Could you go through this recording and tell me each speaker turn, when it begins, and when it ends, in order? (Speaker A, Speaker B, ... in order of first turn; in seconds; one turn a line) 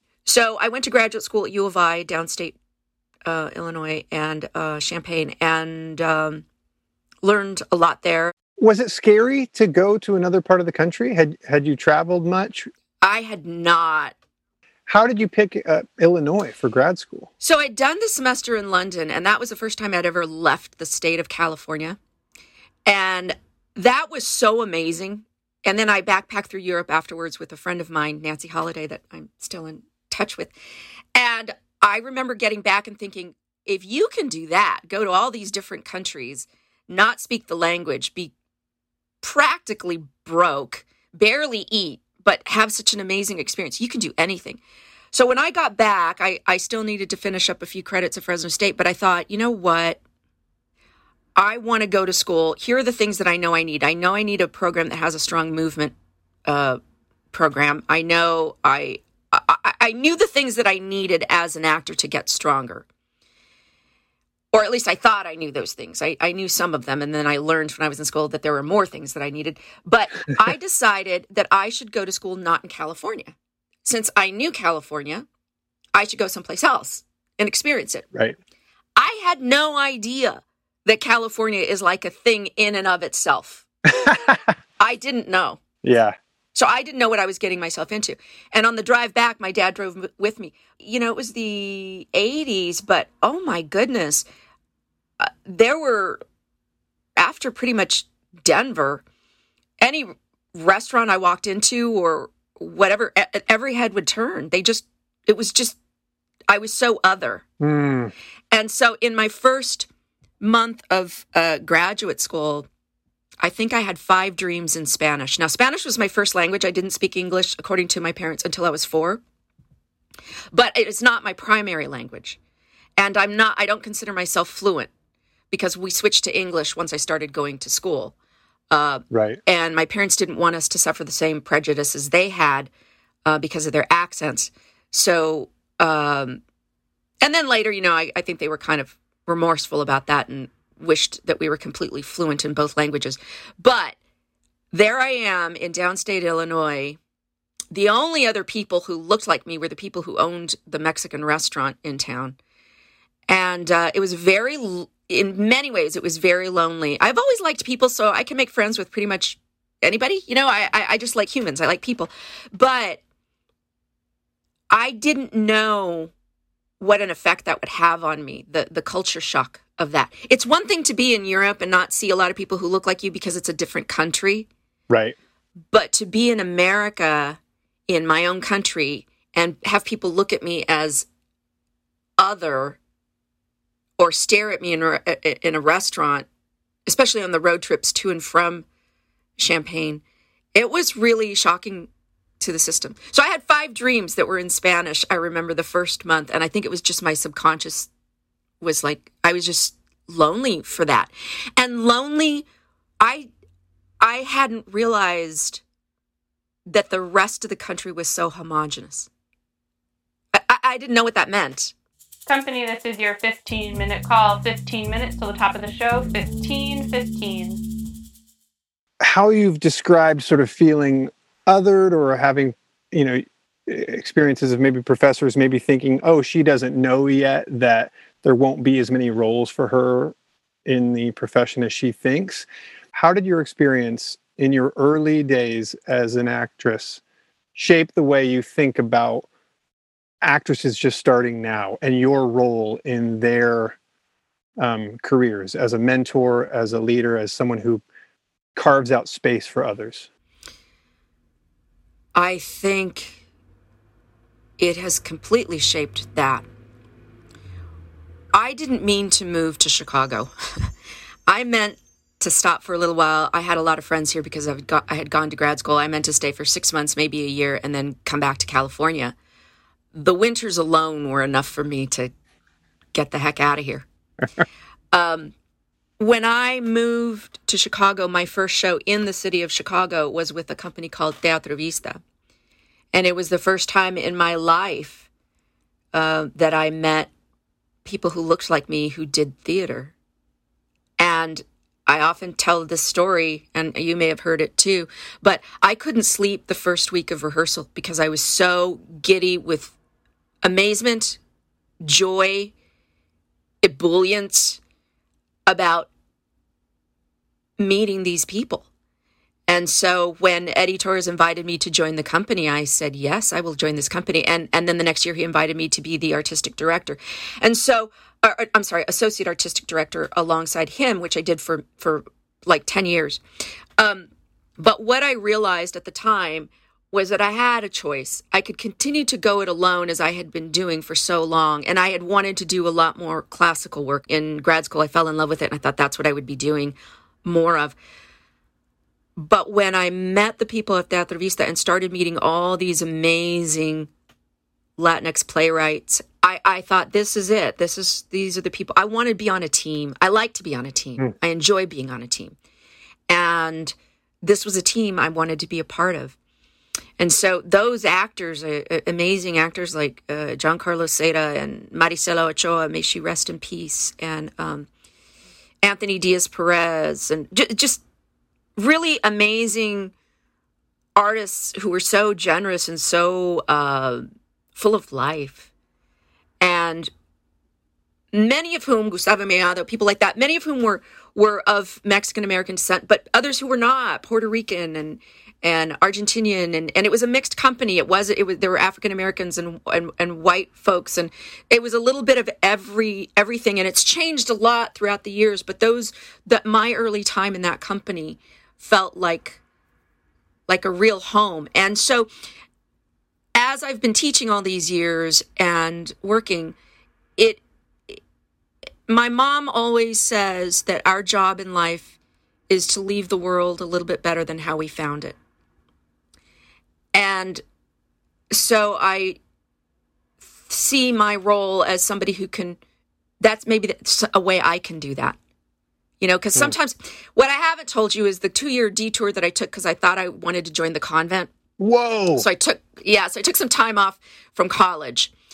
Speaker A: 0.2-2.5
Speaker A: 3.2-6.4
Speaker A: 7.2-8.3
Speaker B: 8.6-12.7
Speaker A: 13.0-14.1
Speaker B: 14.9-17.3
Speaker A: 17.4-22.0
Speaker A: 22.9-30.5
Speaker A: 31.1-38.3
Speaker A: 39.2-44.6
Speaker A: 45.1-50.0
Speaker A: 51.4-55.9
Speaker A: 56.5-56.8
Speaker A: 57.3-62.9
Speaker A: 64.5-73.3
Speaker A: 73.8-75.2
Speaker A: 75.9-78.0
Speaker A: 79.0-85.6
Speaker B: 84.0-84.3
Speaker B: 85.8-86.2
Speaker A: 86.5-94.2
Speaker A: 95.2-96.2
Speaker A: 97.2-99.0
Speaker A: 99.8-105.8
Speaker A: 106.5-107.4
Speaker B: 107.6-108.1
Speaker A: 108.5-109.9
Speaker A: 110.4-112.7
Speaker A: 113.4-119.2
Speaker A: 120.5-122.4
Speaker A: 123.0-124.9
Speaker A: 125.5-128.1
Speaker A: 128.7-132.7
Speaker B: 129.1-129.4
Speaker A: 133.2-136.4
Speaker A: 137.2-143.9
Speaker A: 144.7-147.0
Speaker A: 147.7-152.4
Speaker A: 153.3-163.0
Speaker A: 164.7-166.1
Speaker A: 166.8-174.5
Speaker B: 174.9-175.2
Speaker A: 175.7-177.4
Speaker A: 177.9-181.1
Speaker A: 182.2-182.8
Speaker A: 184.0-186.2
Speaker A: 186.9-188.6
Speaker A: 189.4-190.0
Speaker A: 190.5-191.9
Speaker A: 192.4-197.9
Speaker A: 198.6-202.5
Speaker A: 203.0-203.3
Speaker A: 204.0-205.6
Speaker A: 206.7-209.1
Speaker A: 210.3-211.7
Speaker C: 212.3-217.6
Speaker B: 219.0-230.1
Speaker B: 230.7-237.0
Speaker B: 237.5-239.3
Speaker B: 240.2-243.8
Speaker B: 244.6-247.8
Speaker B: 248.5-250.1
Speaker A: 252.1-253.2
Speaker A: 254.6-256.4
Speaker A: 258.3-260.7
Speaker A: 261.3-269.1
Speaker A: 269.9-272.1
Speaker A: 272.9-273.9
Speaker A: 274.9-275.3
Speaker A: 276.0-282.0
Speaker A: 282.9-285.1
Speaker A: 285.9-287.1
Speaker A: 287.8-289.9
Speaker A: 291.0-299.7
Speaker A: 300.4-301.2
Speaker A: 301.8-302.5
Speaker A: 303.6-304.6
Speaker A: 305.5-305.9
Speaker A: 307.6-308.6
Speaker A: 309.5-323.2
Speaker A: 323.8-337.8
Speaker A: 339.2-343.9
Speaker A: 344.8-352.4
Speaker A: 353.1-356.1
Speaker A: 357.0-364.7
Speaker A: 365.6-367.8
Speaker A: 368.6-369.9
Speaker A: 370.9-375.5
Speaker A: 376.4-376.9
Speaker A: 378.1-399.4
Speaker A: 400.5-402.1
Speaker A: 403.3-406.5
Speaker A: 407.2-408.0
Speaker A: 408.9-411.9
Speaker A: 412.5-415.2
Speaker A: 416.9-417.4
Speaker A: 418.3-419.2
Speaker A: 420.4-422.6
Speaker A: 423.2-425.2
Speaker A: 426.0-431.3
Speaker B: 431.6-432.2
Speaker A: 432.1-435.1